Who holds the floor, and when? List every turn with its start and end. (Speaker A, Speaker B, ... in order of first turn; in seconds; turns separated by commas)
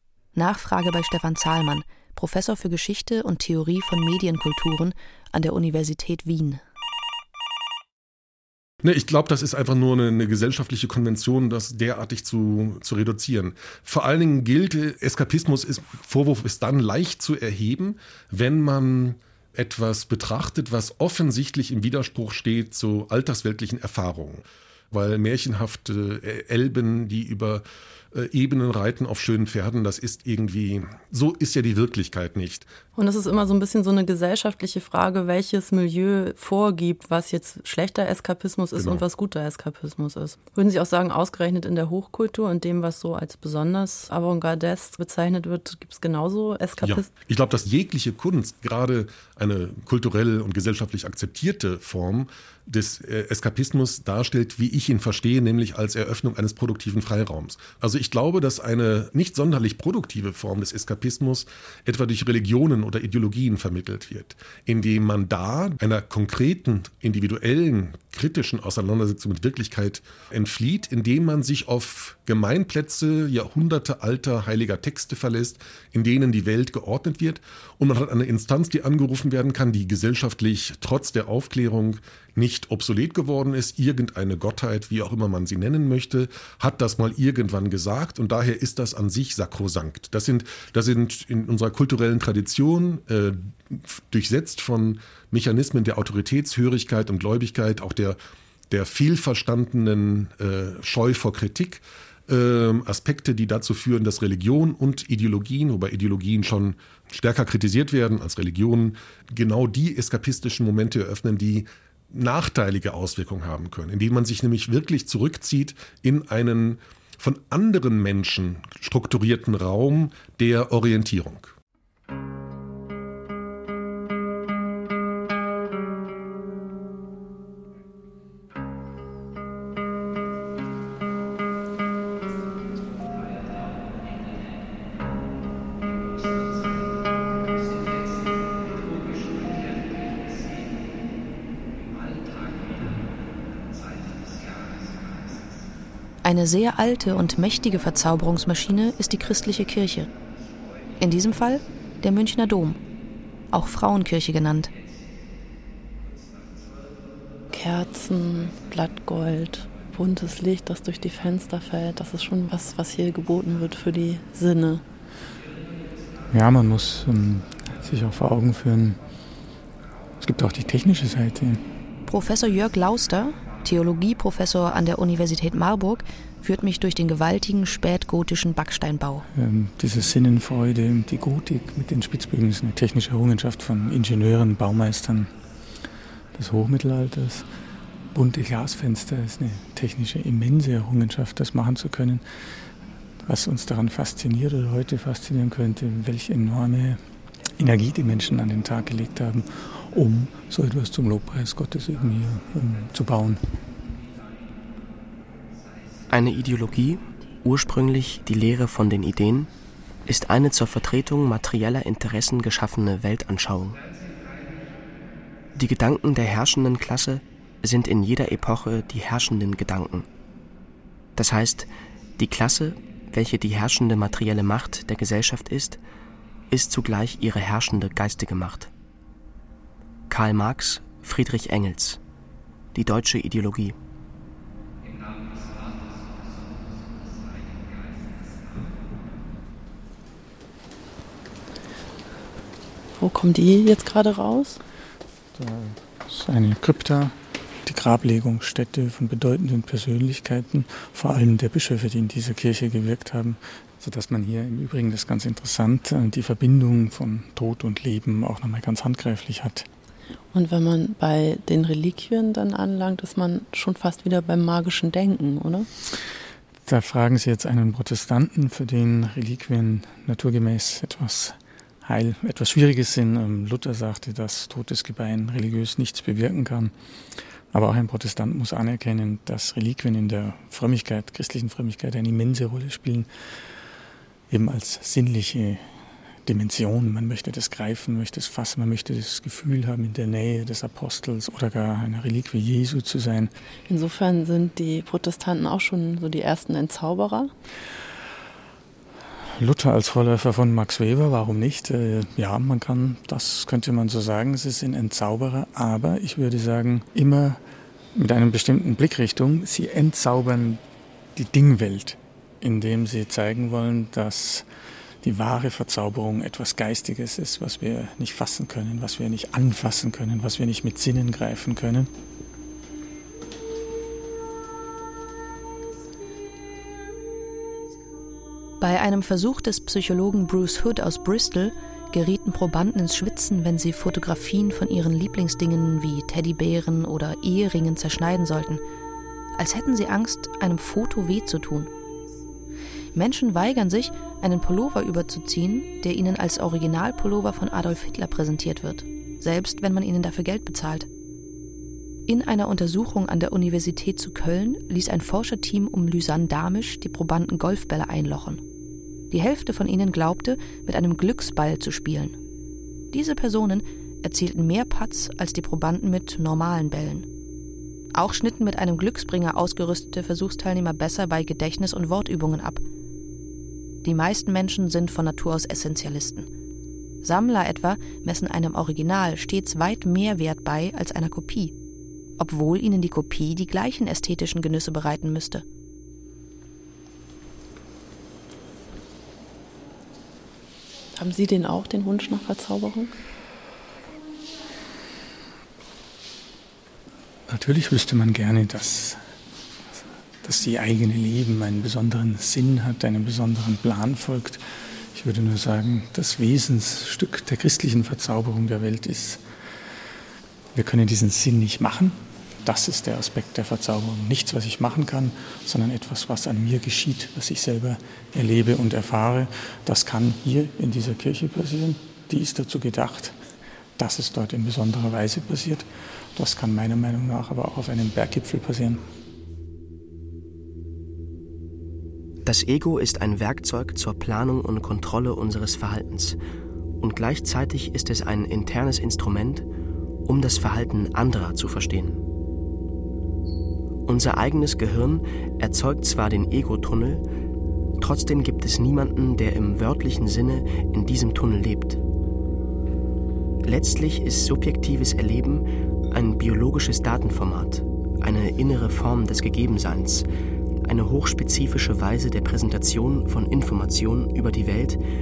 Speaker A: 0.3-6.6, Speaker B: 8.8-32.7, Speaker C: 33.0-47.1, Speaker B: 38.8-39.0, Speaker B: 46.8-98.2, Speaker B: 98.7-121.5, Speaker A: 146.2-150.1, Speaker A: 151.0-152.8, Speaker A: 153.5-154.7, Speaker C: 157.5-164.8, Speaker D: 166.3-169.0, Speaker D: 170.2-171.6, Speaker A: 172.1-179.3, Speaker D: 179.3-185.3, Speaker D: 186.3-187.5, Speaker D: 188.1-192.2, Speaker D: 193.2-197.0, Speaker D: 197.5-203.4, Speaker E: 206.1-209.5, Speaker E: 210.1-213.8, Speaker E: 215.6-220.1, Speaker E: 221.2-225.8, Speaker E: 226.5-228.7, Speaker E: 230.1-232.0, Speaker E: 232.7-233.8, Speaker C: 243.0-244.6, Speaker D: 245.3-259.7, Speaker C: 260.3-265.7, Speaker D: 266.6-276.7, Speaker D: 277.5-283.1, Speaker D: 284.3-285.7, Speaker D: 286.2-293.3, Speaker C: 293.7-297.3, Speaker D: 299.4-307.4, Speaker D: 307.9-310.6, Speaker D: 311.1-314.4, Speaker D: 315.0-321.9, Speaker A: 328.6-338.6, Speaker A: 339.4-341.7, Speaker A: 342.9-350.9, Speaker A: 352.1-358.4, Speaker A: 359.1-362.1, Speaker A: 362.9-367.1, Speaker A: 367.9-372.6, Speaker A: 373.8-376.3, Speaker A: 377.0-381.5, Speaker A: 382.2-385.4, Speaker C: 391.0-392.9, Speaker D: 397.3-399.0, Speaker D: 400.2-409.2, Speaker D: 410.5-423.1, Speaker D: 423.8-428.8, Speaker E: 432.2-436.2, Speaker E: 436.8-439.4, Speaker E: 440.1-442.0, Speaker E: 443.9-447.0, Speaker E: 447.8-451.8, Speaker E: 453.4-460.1, Speaker E: 460.6-464.8